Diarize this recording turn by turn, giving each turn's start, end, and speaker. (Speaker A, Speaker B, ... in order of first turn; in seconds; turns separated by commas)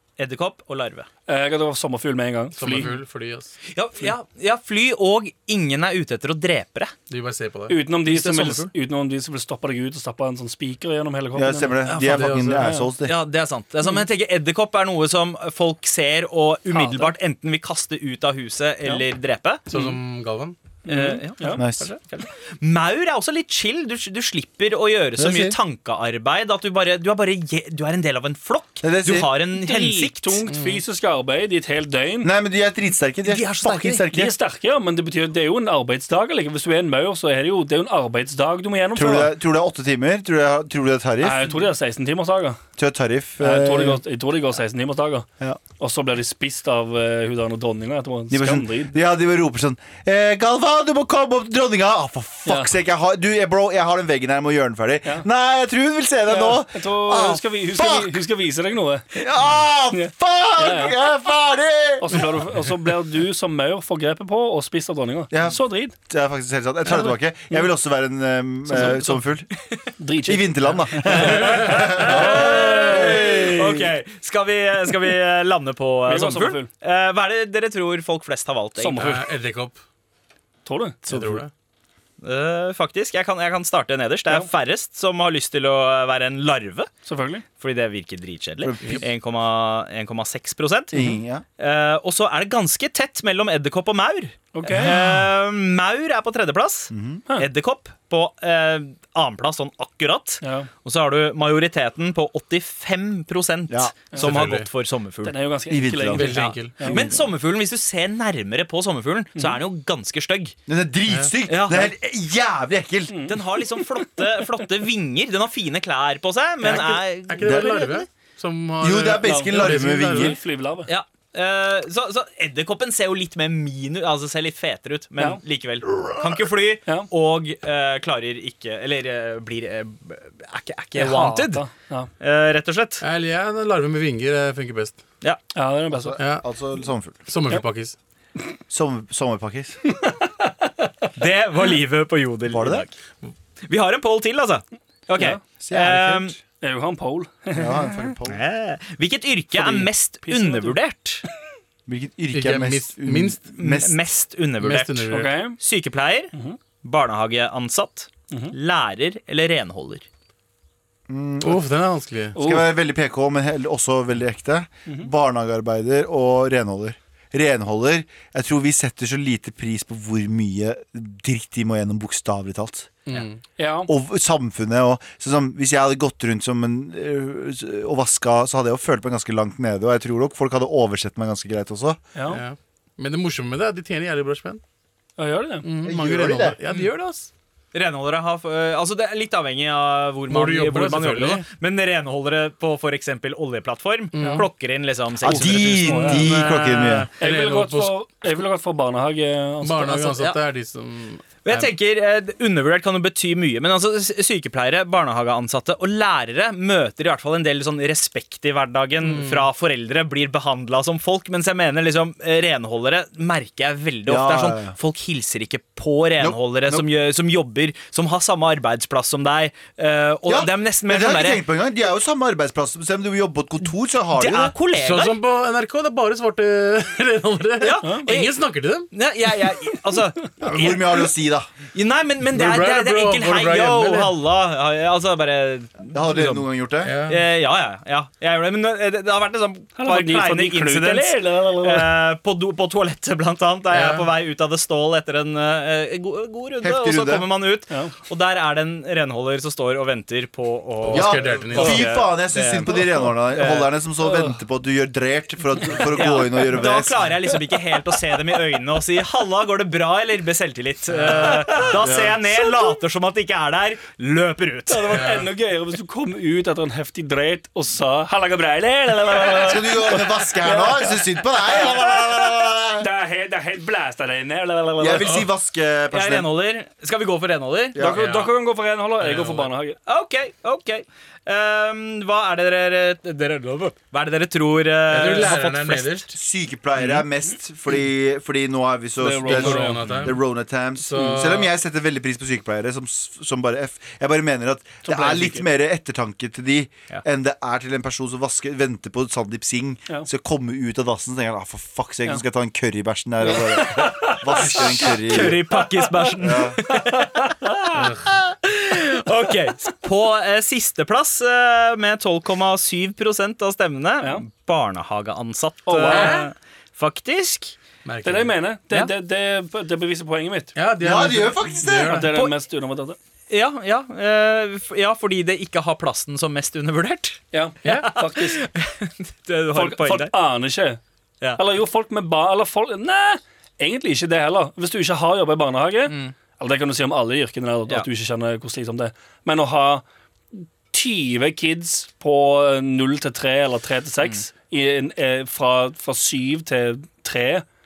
Speaker A: 0.2-1.1, Speaker B: 1.3-2.9, Speaker C: 2.5-3.5, Speaker A: 3.7-6.9, Speaker C: 7.1-7.8, Speaker B: 7.7-11.8, Speaker A: 8.0-8.7, Speaker D: 11.3-13.2, Speaker C: 11.9-12.8, Speaker B: 12.5-12.9, Speaker A: 13.1-19.6, Speaker B: 16.7-17.1, Speaker C: 19.7-20.6, Speaker B: 20.9-21.6, Speaker A: 20.9-30.4, Speaker D: 21.6-21.9, Speaker D: 25.2-25.6, Speaker D: 28.8-29.3, Speaker B: 29.5-32.3, Speaker C: 30.5-30.8, Speaker D: 32.2-34.3, Speaker A: 33.2-34.0, Speaker B: 34.1-39.3, Speaker D: 38.9-41.6, Speaker B: 41.2-42.6, Speaker D: 42.8-44.0, Speaker B: 43.4-45.3, Speaker B: 45.8-49.0, Speaker D: 48.3-58.3, Speaker B: 52.5-52.7, Speaker B: 56.3-59.3, Speaker D: 59.1-62.7, Speaker B: 59.9-61.0, Speaker B: 62.0-66.0, Speaker D: 65.3-69.5, Speaker B: 66.9-67.7, Speaker B: 68.7-69.2, Speaker B: 70.0-73.9, Speaker D: 70.2-73.6, Speaker C: 71.3-71.9, Speaker A: 72.0-79.1, Speaker B: 76.1-76.7, Speaker B: 78.8-79.3, Speaker C: 79.0-79.8, Speaker B: 80.7-81.0, Speaker D: 81.1-81.4, Speaker C: 81.1-81.5, Speaker A: 82.2-86.9, Speaker B: 87.1-87.5, Speaker A: 87.6-91.0, Speaker D: 88.6-89.0, Speaker D: 90.9-91.5, Speaker A: 91.6-105.4, Speaker B: 94.5-95.0, Speaker D: 94.7-95.1, Speaker D: 96.9-97.2, Speaker B: 100.4-100.7, Speaker D: 103.7-104.0, Speaker B: 104.1-104.4, Speaker C: 104.2-104.7, Speaker B: 105.2-107.0, Speaker D: 105.7-106.3, Speaker C: 106.1-107.0, Speaker A: 106.3-110.5, Speaker D: 110.7-113.2, Speaker A: 111.5-111.9, Speaker B: 113.1-114.2, Speaker A: 113.2-118.1, Speaker C: 116.6-120.4, Speaker D: 117.4-117.8, Speaker D: 118.8-120.4, Speaker B: 119.2-120.9, Speaker A: 120.9-131.7, Speaker B: 130.9-132.1, Speaker A: 132.2-133.0, Speaker C: 133.0-135.0, Speaker B: 135.5-136.2, Speaker D: 135.9-137.2, Speaker C: 136.2-136.4, Speaker C: 137.3-138.0, Speaker D: 138.7-139.8, Speaker B: 140.1-140.5, Speaker A: 141.2-142.9, Speaker D: 142.5-142.9, Speaker A: 143.7-146.3, Speaker D: 145.6-146.4, Speaker B: 146.6-148.0, Speaker D: 147.5-148.4, Speaker A: 148.3-151.2, Speaker B: 149.5-150.8, Speaker D: 151.9-154.0, Speaker C: 152.3-153.5, Speaker A: 153.6-156.3, Speaker C: 154.6-155.3, Speaker B: 155.1-155.6, Speaker B: 156.3-156.6, Speaker A: 156.8-160.1, Speaker B: 158.3-158.6, Speaker D: 161.1-161.7, Speaker C: 161.4-162.4, Speaker B: 162.4-162.7, Speaker D: 162.4-172.9, Speaker C: 173.1-173.4, Speaker B: 173.6-173.9, Speaker D: 173.9-182.0, Speaker B: 182.2-182.4, Speaker C: 182.3-184.6, Speaker B: 185.2-185.7, Speaker C: 185.6-187.3, Speaker D: 185.8-186.6, Speaker A: 187.7-197.1, Speaker C: 190.3-191.5, Speaker C: 194.1-194.5, Speaker B: 194.2-194.5, Speaker D: 195.2-197.1, Speaker B: 195.3-196.3, Speaker C: 196.4-197.9, Speaker B: 197.2-200.2, Speaker C: 199.6-201.7, Speaker A: 201.4-221.4, Speaker C: 209.0-209.5, Speaker D: 214.1-214.8, Speaker D: 216.2-216.9, Speaker D: 220.3-224.6, Speaker A: 224.2-225.2, Speaker C: 224.8-228.9, Speaker A: 227.6-228.3, Speaker A: 228.9-231.1, Speaker D: 230.4-231.5, Speaker A: 231.7-236.5, Speaker C: 232.3-234.2, Speaker D: 235.9-236.9, Speaker C: 236.8-237.3, Speaker A: 237.1-253.7, Speaker B: 239.8-241.9, Speaker C: 243.7-244.1, Speaker D: 246.6-247.3, Speaker C: 250.8-252.0, Speaker D: 250.9-257.0, Speaker B: 254.0-254.3, Speaker A: 255.9-265.1, Speaker B: 261.0-261.8, Speaker D: 261.7-262.2, Speaker B: 264.7-272.3, Speaker C: 264.9-265.3, Speaker D: 269.4-272.9, Speaker B: 272.8-275.2, Speaker D: 274.8-276.3, Speaker A: 275.9-277.8, Speaker D: 277.8-278.0, Speaker B: 277.8-279.8, Speaker C: 278.0-278.3, Speaker C: 279.0-279.5, Speaker A: 279.9-286.0, Speaker C: 284.9-286.1, Speaker D: 286.1-305.4, Speaker B: 289.0-290.1, Speaker C: 289.2-290.2, Speaker C: 290.8-291.5, Speaker B: 291.0-291.3, Speaker B: 294.9-295.4, Speaker B: 303.3-306.1, Speaker A: 304.5-317.6, Speaker D: 306.2-306.6, Speaker B: 306.8-307.3, Speaker C: 307.7-308.1, Speaker B: 315.7-316.3, Speaker C: 315.9-316.2, Speaker C: 317.9-318.3, Speaker B: 318.0-320.5, Speaker C: 320.6-322.1, Speaker D: 320.8-322.0, Speaker B: 321.9-323.0, Speaker A: 323.3-330.1, Speaker B: 327.3-328.4, Speaker B: 329.5-330.8, Speaker B: 331.4-347.4, Speaker A: 335.9-336.1